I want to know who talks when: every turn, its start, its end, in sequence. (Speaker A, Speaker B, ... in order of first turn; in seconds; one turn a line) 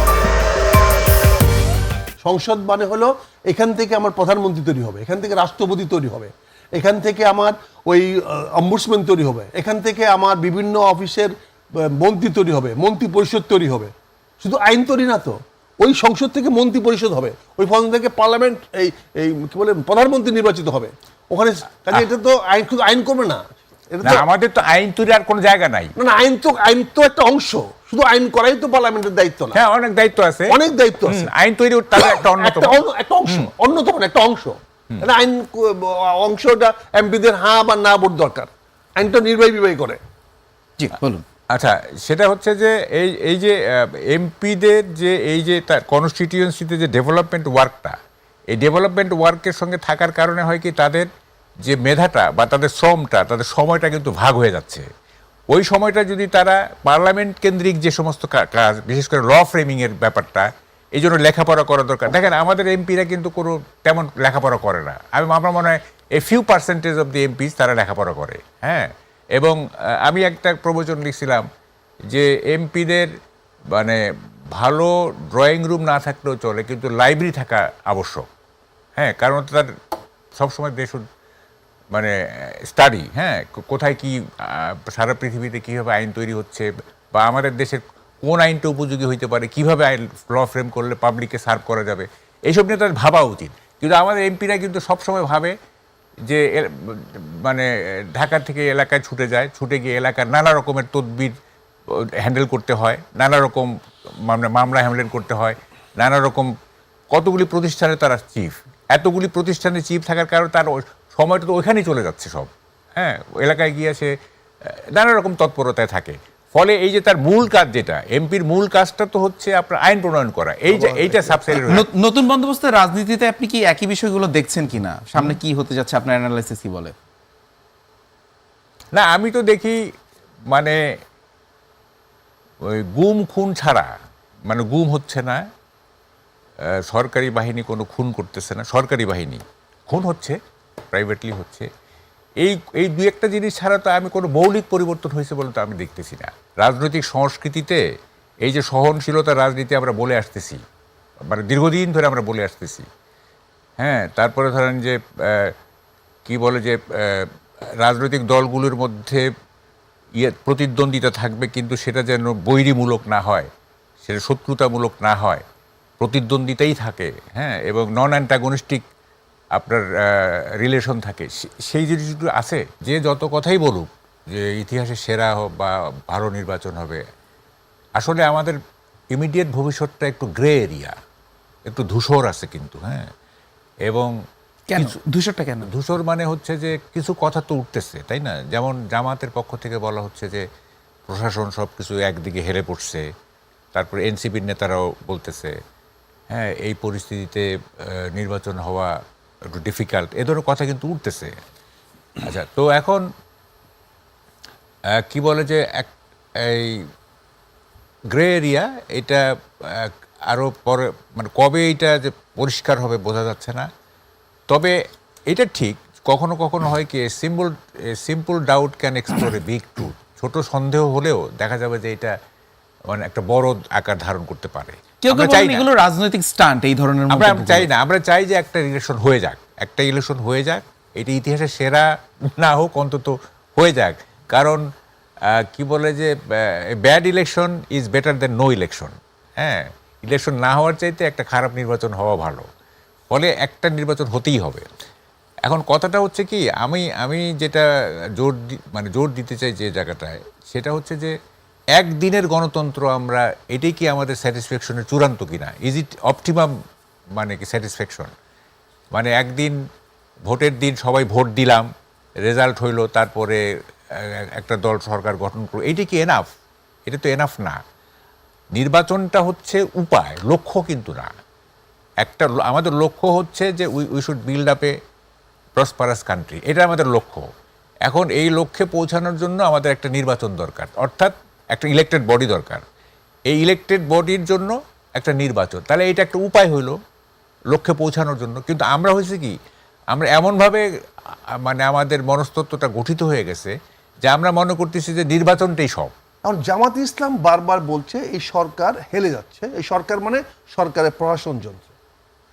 Speaker A: 2.2-24.2
Speaker B: 24.0-25.9
Speaker A: 26.0-29.6
Speaker B: 29.5-33.5
Speaker A: 30.5-31.3
Speaker A: 32.0-40.0
Speaker C: 40.8-41.2
Speaker B: 41.5-47.9
Speaker B: 48.5-51.1
Speaker B: 51.6-54.8
Speaker B: 55.5-71.4
Speaker B: 72.1-73.1
Speaker B: 73.7-74.0
Speaker B: 74.5-78.2
Speaker B: 79.0-79.7
Speaker B: 80.4-81.0
Speaker B: 81.9-95.5
Speaker B: 96.3-101.3
Speaker B: 102.2-103.7
Speaker B: 104.3-106.5
Speaker B: 107.1-114.1
Speaker B: 114.7-121.8
Speaker A: 120.7-121.7
Speaker C: 121.7-126.9
Speaker B: 128.9-129.8
Speaker B: 130.5-130.8
Speaker B: 132.7-133.9
Speaker B: 134.5-135.4
Speaker B: 136.9-140.4
Speaker B: 140.9-141.7
Speaker B: 142.4-147.8
Speaker B: 148.4-150.6
Speaker B: 151.3-152.8
Speaker B: 153.8-155.5
Speaker B: 156.3-157.3
Speaker B: 157.8-159.2
Speaker B: 160.2-163.5
Speaker B: 164.0-165.4
Speaker B: 166.0-168.8
Speaker B: 169.6-177.0
Speaker B: 178.0-178.6
Speaker B: 179.1-180.9
Speaker B: 181.7-183.0
Speaker C: 184.7-185.7
Speaker B: 185.6-190.4
Speaker B: 191.1-193.0
Speaker B: 193.7-195.5
Speaker B: 196.3-198.9
Speaker B: 199.5-201.3
Speaker B: 202.2-203.0
Speaker B: 205.1-206.8
Speaker B: 208.1-213.7
Speaker B: 215.3-222.1
Speaker B: 222.9-225.7
Speaker C: 225.0-227.7
Speaker B: 227.1-231.8
Speaker B: 232.4-234.6
Speaker B: 235.4-242.4
Speaker B: 243.1-244.6
Speaker B: 245.5-247.6
Speaker B: 248.2-251.1
Speaker B: 251.8-256.5
Speaker B: 257.2-258.1
Speaker B: 258.9-259.6
Speaker B: 260.3-261.6
Speaker B: 262.3-263.4
Speaker B: 264.0-266.2
Speaker B: 266.9-267.6
Speaker B: 268.5-271.1
Speaker B: 272.0-274.7
Speaker B: 275.6-277.2
Speaker B: 277.9-282.6
Speaker B: 283.3-286.8
Speaker B: 287.5-289.3
Speaker B: 289.9-290.6
Speaker B: 291.4-293.5
Speaker B: 294.0-295.9
Speaker A: 296.2-301.7